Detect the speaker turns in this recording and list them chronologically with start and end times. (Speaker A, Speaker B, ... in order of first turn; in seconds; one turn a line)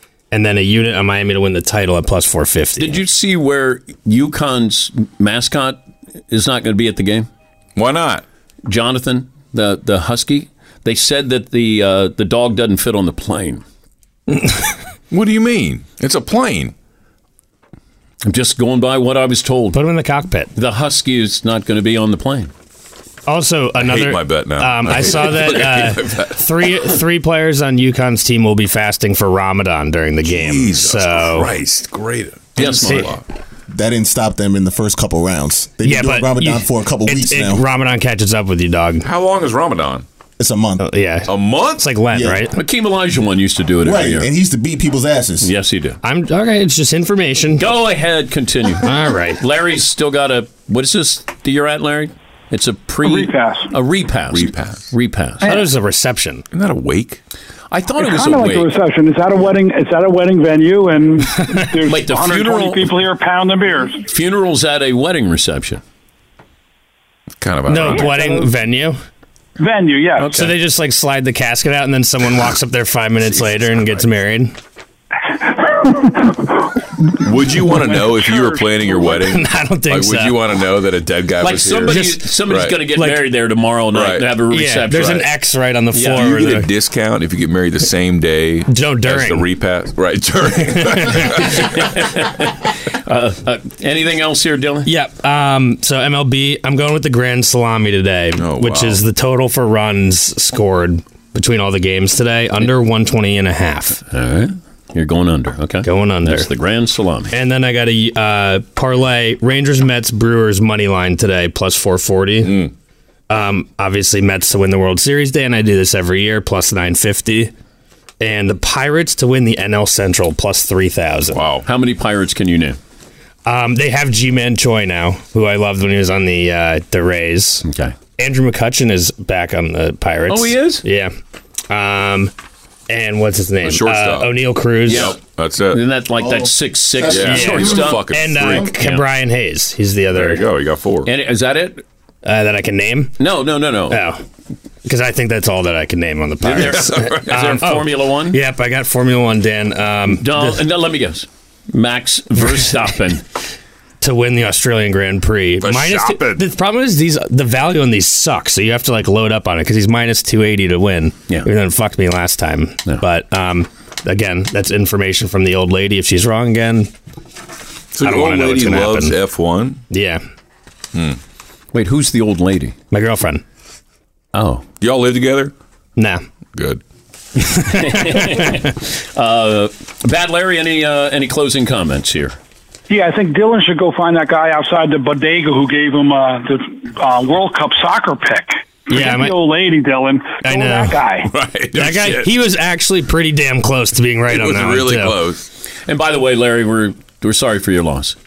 Speaker A: 0.3-3.0
Speaker B: 2.8-5.8
Speaker B: 6.3-7.3
Speaker C: 7.8-8.2
Speaker B: 8.7-13.6
Speaker C: 15.1-16.7
Speaker B: 18.2-19.8
Speaker A: 19.7-20.5
Speaker B: 20.6-22.5
Speaker A: 23.3-31.5
Speaker C: 23.8-26.4
Speaker C: 30.2-33.2
Speaker B: 32.6-33.1
Speaker A: 32.6-33.2
Speaker D: 33.7-37.7
Speaker A: 35.8-39.1
Speaker C: 39.0-40.0
Speaker D: 40.4-40.8
Speaker A: 40.8-42.5
Speaker C: 41.3-41.9
Speaker D: 42.1-42.5
Speaker B: 42.5-44.3
Speaker D: 43.8-45.5
Speaker B: 45.4-46.0
Speaker A: 46.0-47.7
Speaker B: 47.6-55.5
Speaker A: 48.8-49.4
Speaker E: 53.0-53.7
Speaker C: 54.3-54.9
Speaker E: 55.4-55.7
Speaker A: 55.5-56.4
Speaker C: 56.5-57.2
Speaker B: 57.7-58.7
Speaker E: 58.0-64.0
Speaker B: 61.9-62.9
Speaker B: 64.1-65.8
Speaker C: 67.4-68.2
Speaker A: 67.7-69.0
Speaker E: 67.9-68.5
Speaker E: 69.6-70.5
Speaker B: 70.2-70.5
Speaker A: 70.4-74.6
Speaker E: 75.4-79.2
Speaker C: 77.2-82.8
Speaker A: 79.2-80.4
Speaker B: 81.4-85.3
Speaker A: 81.9-82.3
Speaker A: 82.9-83.2
Speaker C: 83.9-84.3
Speaker A: 84.5-86.7
Speaker B: 85.9-86.3
Speaker C: 86.1-91.9
Speaker A: 88.7-89.5
Speaker A: 90.8-91.3
Speaker B: 91.6-94.9
Speaker A: 94.9-104.0
Speaker C: 98.4-99.0
Speaker B: 104.0-107.3
Speaker A: 105.8-106.5
Speaker A: 107.3-112.6
Speaker C: 112.4-112.7
Speaker A: 113.3-117.5
Speaker A: 118.2-121.5
Speaker C: 121.3-121.7
Speaker B: 121.7-122.8
Speaker A: 123.5-127.7
Speaker B: 127.6-128.0
Speaker A: 128.2-131.1
Speaker B: 130.3-130.8
Speaker A: 131.7-132.3
Speaker A: 132.9-135.2
Speaker C: 133.6-135.8
Speaker B: 134.9-135.2
Speaker B: 135.7-139.1
Speaker C: 137.1-138.7
Speaker A: 137.2-140.4
Speaker C: 140.1-141.1
Speaker B: 141.1-141.8
Speaker A: 142.2-143.2
Speaker B: 143.2-144.0
Speaker A: 143.9-144.2
Speaker A: 144.8-150.6
Speaker B: 146.4-148.4
Speaker C: 146.6-147.6
Speaker B: 150.1-153.2
Speaker A: 154.0-166.9
Speaker C: 155.6-156.4
Speaker C: 167.9-169.8
Speaker A: 168.0-169.2
Speaker A: 169.9-170.2
Speaker C: 170.9-171.2
Speaker B: 171.7-172.8
Speaker A: 172.9-173.4
Speaker B: 174.3-174.7
Speaker C: 174.8-175.5
Speaker A: 176.0-176.2
Speaker C: 176.6-176.8
Speaker A: 177.5-178.4
Speaker B: 177.8-182.4
Speaker E: 182.9-191.3
Speaker A: 188.9-189.3
Speaker A: 190.4-191.1
Speaker C: 191.3-192.3
Speaker A: 191.7-195.2
Speaker C: 194.3-195.5
Speaker B: 195.8-198.2